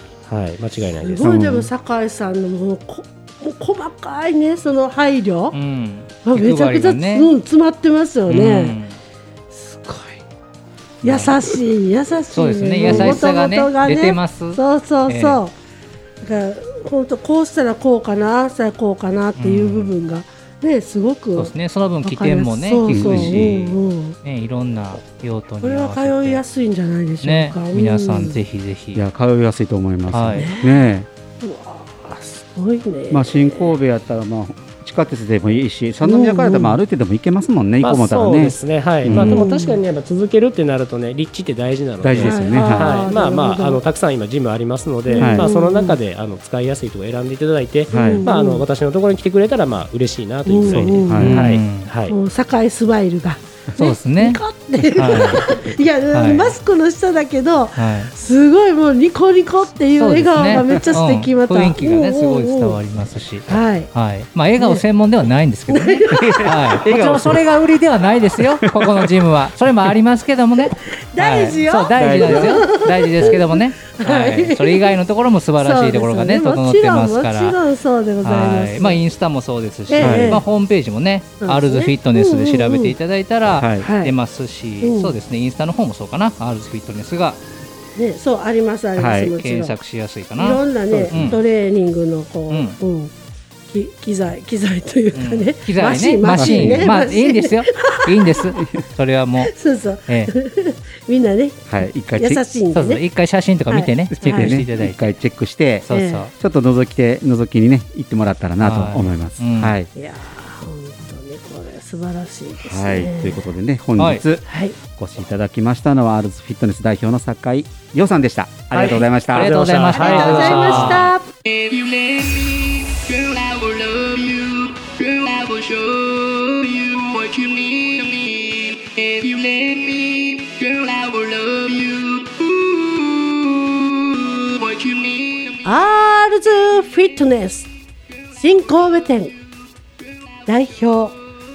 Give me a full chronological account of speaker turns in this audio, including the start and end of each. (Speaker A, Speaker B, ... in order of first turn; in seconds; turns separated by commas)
Speaker A: 0.3-1.3, Speaker B: 1.0-5.6, Speaker C: 1.2-1.7, Speaker D: 5.5-7.3, Speaker B: 6.2-8.8, Speaker D: 8.3-9.0, Speaker B: 9.5-10.2, Speaker B: 11.0-15.5, Speaker D: 12.3-15.4, Speaker C: 12.9-13.2, Speaker B: 16.2-24.2, Speaker D: 19.4-19.9, Speaker D: 21.4-26.4, Speaker C: 22.9-23.7, Speaker B: 25.6-28.4, Speaker D: 27.2-29.0, Speaker C: 28.9-31.1, Speaker D: 30.1-30.5, Speaker B: 30.4-30.8, Speaker B: 31.4-33.8, Speaker C: 33.1-39.5, Speaker B: 36.0-36.8, Speaker A: 37.8-52.2, Speaker B: 39.1-39.8, Speaker C: 42.0-43.1, Speaker B: 42.2-43.8, Speaker B: 45.1-46.0, Speaker C: 45.2-45.5, Speaker C: 47.9-48.3, Speaker B: 47.9-48.7, Speaker B: 50.5-51.5, Speaker C: 50.7-51.5, Speaker D: 51.1-51.9, Speaker B: 52.1-62.8, Speaker D: 53.8-54.4, Speaker D: 54.9-55.4, Speaker D: 56.1-56.6, Speaker D: 57.8-58.1, Speaker D: 60.0-77.6, Speaker B: 63.5-63.9, Speaker B: 64.6-64.8, Speaker B: 65.7-66.8, Speaker C: 66.1-67.6, Speaker C: 68.6-69.2, Speaker B: 70.7-74.9, Speaker C: 72.0-72.6, Speaker B: 75.6-79.0, Speaker D: 78.2-87.4, Speaker B: 79.9-80.5, Speaker C: 80.0-80.4, Speaker B: 81.4-83.0, Speaker C: 83.5-83.9, Speaker B: 83.8-84.1, Speaker B: 84.8-85.1, Speaker B: 88.0-89.8, Speaker C: 89.0-89.4, Speaker D: 89.3-91.4, Speaker B: 90.4-93.1, Speaker C: 90.9-91.4, Speaker D: 92.5-92.8, Speaker B: 93.7-98.4, Speaker D: 95.1-99.5, Speaker C: 96.4-96.9, Speaker B: 99.4-103.0, Speaker C: 101.7-102.4, Speaker D: 102.7-105.1, Speaker B: 103.7-104.6, Speaker C: 104.1-109.9, Speaker D: 105.9-106.3, Speaker B: 105.9-106.3, Speaker D: 108.6-109.8, Speaker B: 110.0-113.4, Speaker C: 112.7-119.5, Speaker D: 114.0-114.2, Speaker B: 114.5-114.8, Speaker A: 118.7-121.1, Speaker D: 119.3-121.1, Speaker B: 120.0-121.3, Speaker B: 135.6-137.7, Speaker B: 138.3-139.3, Speaker B: 140.5-141.2